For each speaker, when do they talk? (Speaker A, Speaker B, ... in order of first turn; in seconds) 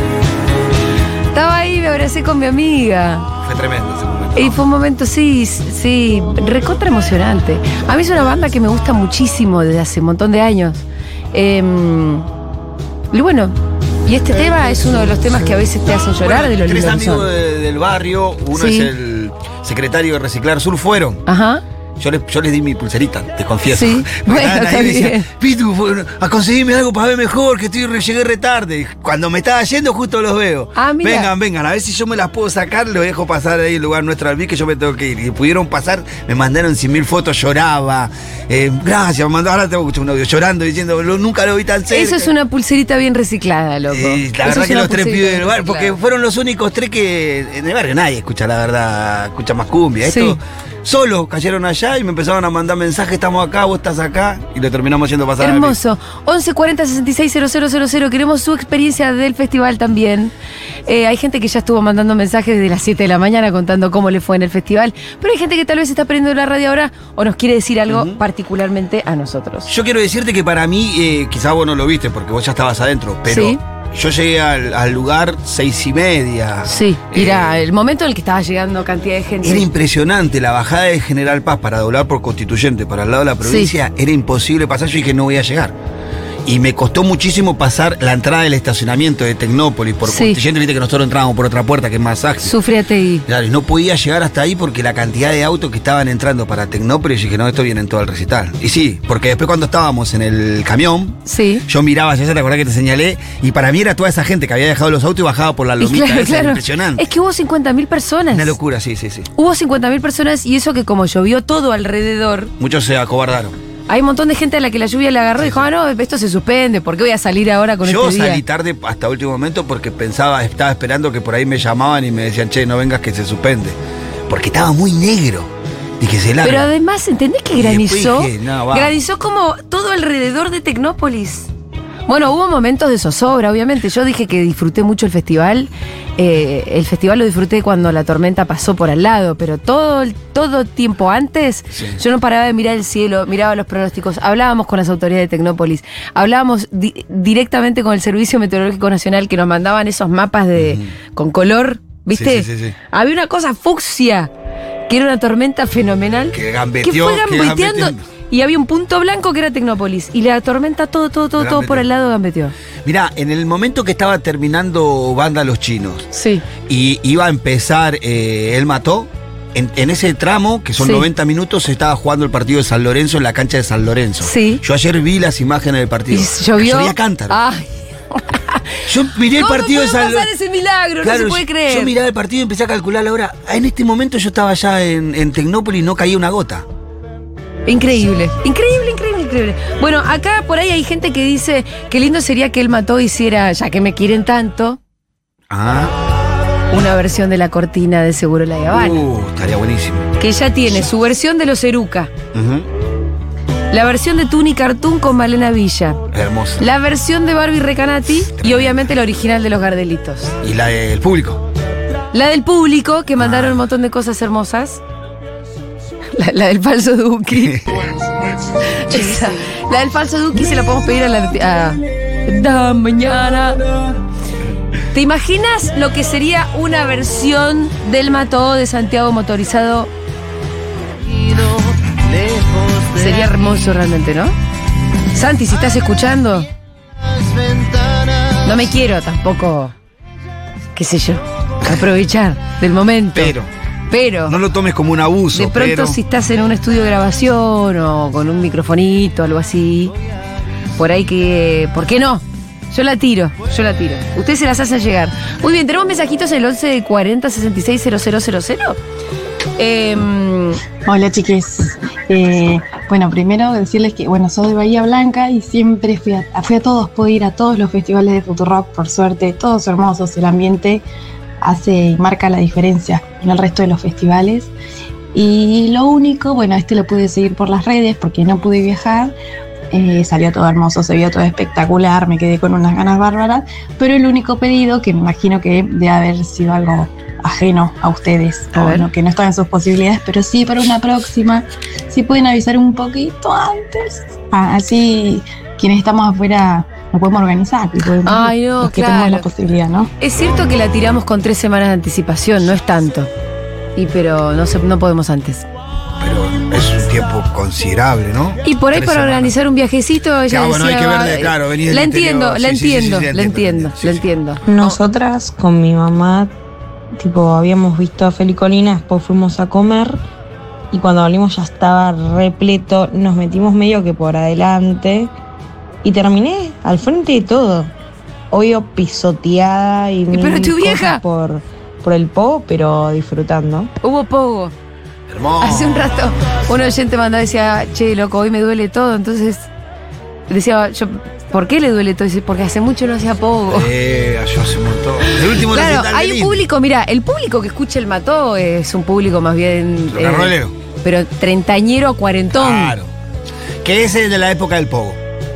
Speaker A: 1.3-3.3, 4.3-12.3, 13.1-13.5, 14.1-17.3, 18.5-18.9, 21.2-21.6, 23.7-25.3, 30.8-31.3, 41.9-46.0, 50.0-50.4, 55.4-60.3, 60.9-69.7, 73.3-73.6, 76.7-79.7, 83.4-83.7, 90.0-90.4, 92.4-93.2, 101.2-101.6, 105.8-108.5, 109.3-112.5, 113.9-118.4, 126.4-131.5, 132.1-154.3, 154.9-162.5, 166.1-166.4, 170.8-171.1, 174.2-174.6, 176.1-178.6, 179.3-181.9, 187.7-194.8, 196.7-199.0, 200.2-202.1, 203.7-206.0, 206.6-210.3, 212.1-214.8, 216.2-217.6, 218.8-223.6, 224.9-229.9, 232.9-234.3, 235.1-236.5, 238.4-239.7, 240.7-243.3, 243.9-244.4, 245.3-249.9, 250.8-258.8, 259.6-260.6, 288.5-288.9, 298.0-299.3, 300.0-303.1, 303.8-305.4, 308.4-314.8, 330.1-331.0, 333.8-334.5, 335.4-339.5, 340.3-343.7, 345.1-352.8
Speaker B: 3.4-4.6, 16.2-21.2, 22.0-42.3, 43.9-55.8, 67.9-68.2, 69.7-77.6, 79.4-85.7, 86.5-92.5, 93.2-107.0, 108.3-109.3, 112.6-113.5, 115.4-115.7, 117.8-123.8, 124.3-126.7, 127.5-128.9, 141.7-142.0, 150.6-150.9, 152.1-152.8, 156.3-158.0, 161.4-161.8, 162.8-166.0, 166.7-177.3, 178.8-180.3, 181.0-186.6, 195.5-195.9, 198.7-200.1, 202.3-202.7, 206.1-206.6, 208.3-208.8, 210.4-211.4, 213.2-213.6, 217.3-217.8, 243.1-243.5, 244.3-246.0, 306.0-309.3, 310.3-314.1, 335.1-335.9, 343.5-346.4, 349.9-350.5, 352.3-352.9, 353.6-355.0
Speaker C: 260.9-270.8, 271.4-274.5, 275.1-279.1, 279.7-299.9
Speaker D: 314.4-316.3, 316.9-320.0, 320.7-325.1, 325.8-327.7, 328.3-333.7